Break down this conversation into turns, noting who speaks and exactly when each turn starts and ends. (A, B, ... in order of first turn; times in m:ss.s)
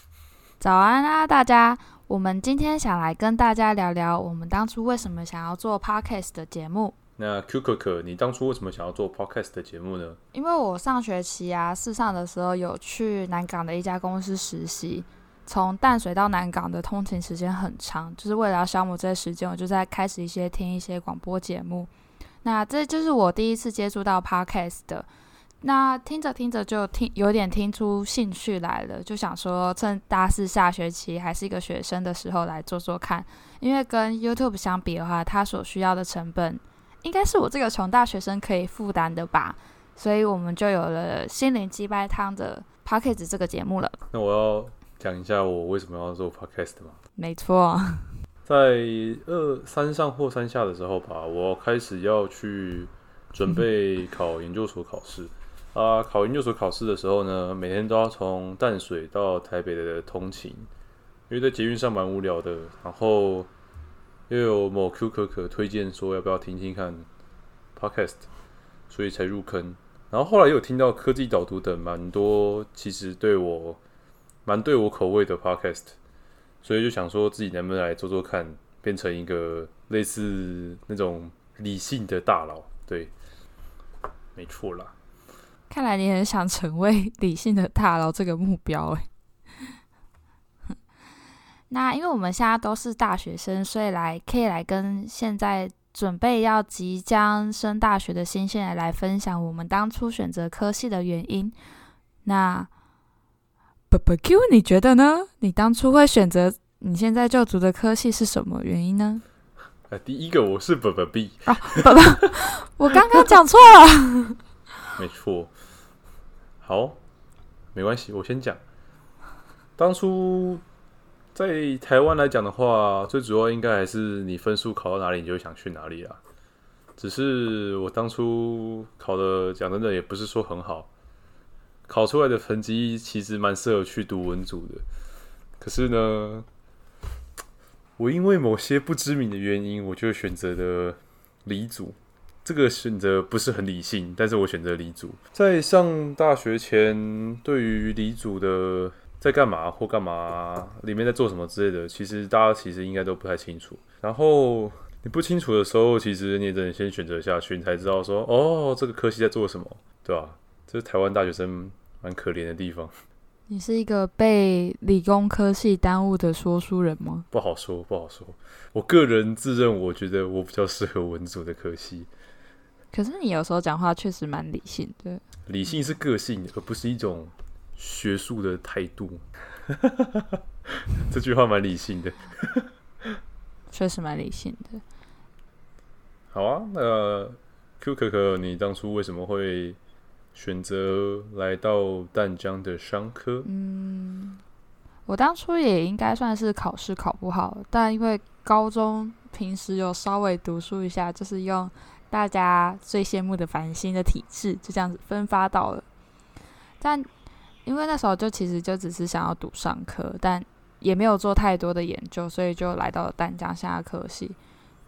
0:00.6-0:06.9 A
0:07.2-0:10.2 B
0:10.3-0:21.9 A
0:22.4-0:25.1 A
0:25.6-0:44.0 A
0:44.1-0:47.0 B
0:47.2-0:48.1 A
0:48.5-1:00.7 B
1:01.3-1:03.5 B
1:04.3-1:07.1 B
1:07.8-1:08.2 B
1:08.9-1:13.8 B
1:14.5-1:16.0 B
1:16.6-1:23.1 B
1:24.4-1:24.9 B
1:25.7-1:29.1 A
1:31.7-1:41.6 A
1:42.2-1:42.7 A
1:43.9-1:49.2 A
1:49.9-1:52.1 B
1:51.5-1:54.4 A
1:55.0-1:55.5 B
1:56.6-1:57.0 B
1:57.7-1:58.6 B
1:59.8-2:00.6 B
2:01.4-2:06.2 B
2:07.0-2:10.9 B
2:11.9-2:14.8 B
2:15.6-2:16.5 B
2:18.0-2:42.9 B
2:43.5-2:47.3 A
2:47.3-2:52.1 B
2:52.9-2:55.2 A
2:55.5-3:02.7 B
3:03.7-3:04.8 A
3:06.3-3:09.8 B
3:10.3-3:13.5 B
3:13.4-3:14.4 A
3:15.1-3:25.8 A
3:26.8-3:27.1 A
3:27.6-3:34.4 A